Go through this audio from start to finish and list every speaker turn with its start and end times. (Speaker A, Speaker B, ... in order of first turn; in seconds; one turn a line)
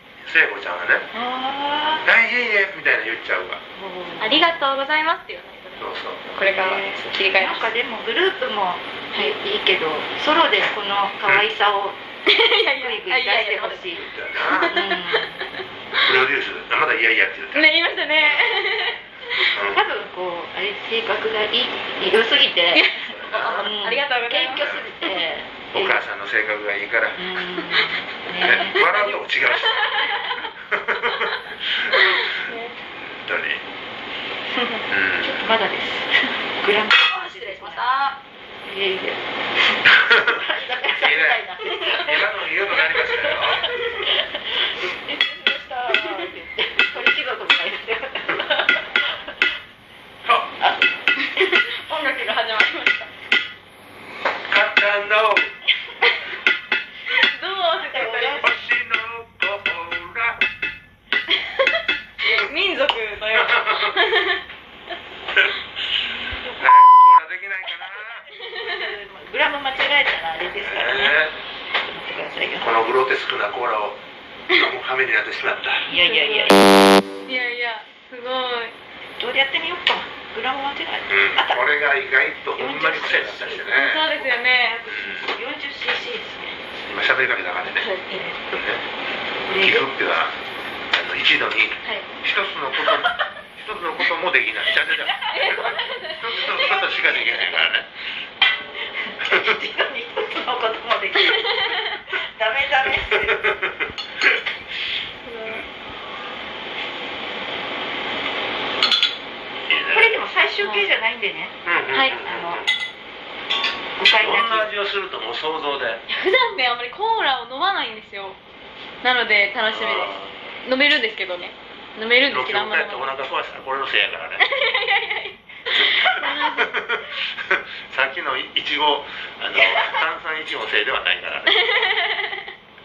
Speaker A: 0.2-1.1
Speaker B: 1.1-2.1
Speaker A: 2.0-3.6
Speaker B: 3.8-4.6
Speaker C: 4.2-7.7
Speaker A: 5.8-6.2
Speaker B: 6.4-12.0
Speaker C: 12.2-15.3
Speaker B: 12.7-14.1
Speaker A: 13.9-14.8
Speaker B: 14.6-15.4
Speaker A: 16.1-17.7
Speaker C: 17.5-19.0
Speaker B: 19.4-26.0
Speaker A: 19.6-19.8
Speaker C: 22.7-25.1
Speaker A: 23.1-23.7
Speaker A: 24.6-24.9
Speaker A: 25.7-27.4
Speaker B: 27.1-28.8
Speaker A: 28.4-32.3
Speaker C: 28.7-30.4
Speaker C: 31.9-32.8
Speaker A: 33.2-33.6
Speaker A: 34.9-35.4
Speaker B: 35.2-37.8
Speaker C: 37.1-38.2
Speaker B: 38.6-42.2
Speaker A: 41.0-43.7
Speaker B: 43.1-49.2
Speaker B: 50.5-51.5
Speaker C: 51.2-53.1
Speaker A: 54.5-55.5
Speaker C: 57.1-58.5
Speaker B: 57.9-58.5
Speaker A: 58.0-60.4
Speaker C: 62.2-64.4
Speaker A: 63.3-63.9
Speaker B: 66.0-66.9
Speaker A: 66.6-68.2
Speaker B: 68.0-71.2
Speaker C: 68.5-68.8
Speaker A: 70.6-71.4
Speaker B: 71.8-72.7
Speaker A: 72.6-75.9
Speaker B: 75.9-76.8
Speaker C: 75.9-76.6
Speaker C: 77.3-78.7
Speaker B: 79.2-81.7
Speaker A: 81.1-84.0
Speaker B: 82.5-86.6
Speaker C: 83.7-84.8
Speaker A: 84.9-85.3
Speaker A: 86.9-87.9
Speaker C: 87.6-88.3
Speaker B: 88.1-88.6
Speaker A: 88.4-88.8
Speaker B: 89.4-89.9
Speaker A: 89.6-90.3
Speaker A: 90.9-97.9
Speaker B: 95.0-95.6
Speaker C: 95.2-97.6
Speaker B: 98.9-103.5
Speaker A: 103.4-103.7
Speaker C: 105.2-105.7
Speaker A: 109.6-110.2
Speaker B: 109.9-111.5
Speaker C: 110.6-110.9
Speaker A: 111.6-112.7
Speaker C: 111.9-112.2
Speaker B: 112.1-112.6
Speaker B: 114.0-114.7
Speaker A: 114.2-116.0
Speaker C: 116.1-118.4
Speaker C: 119.0-123.2
Speaker A: 119.7-120.3
Speaker A: 122.3-124.4
Speaker C: 124.4-126.8
Speaker A: 125.9-131.9
Speaker C: 131.5-132.4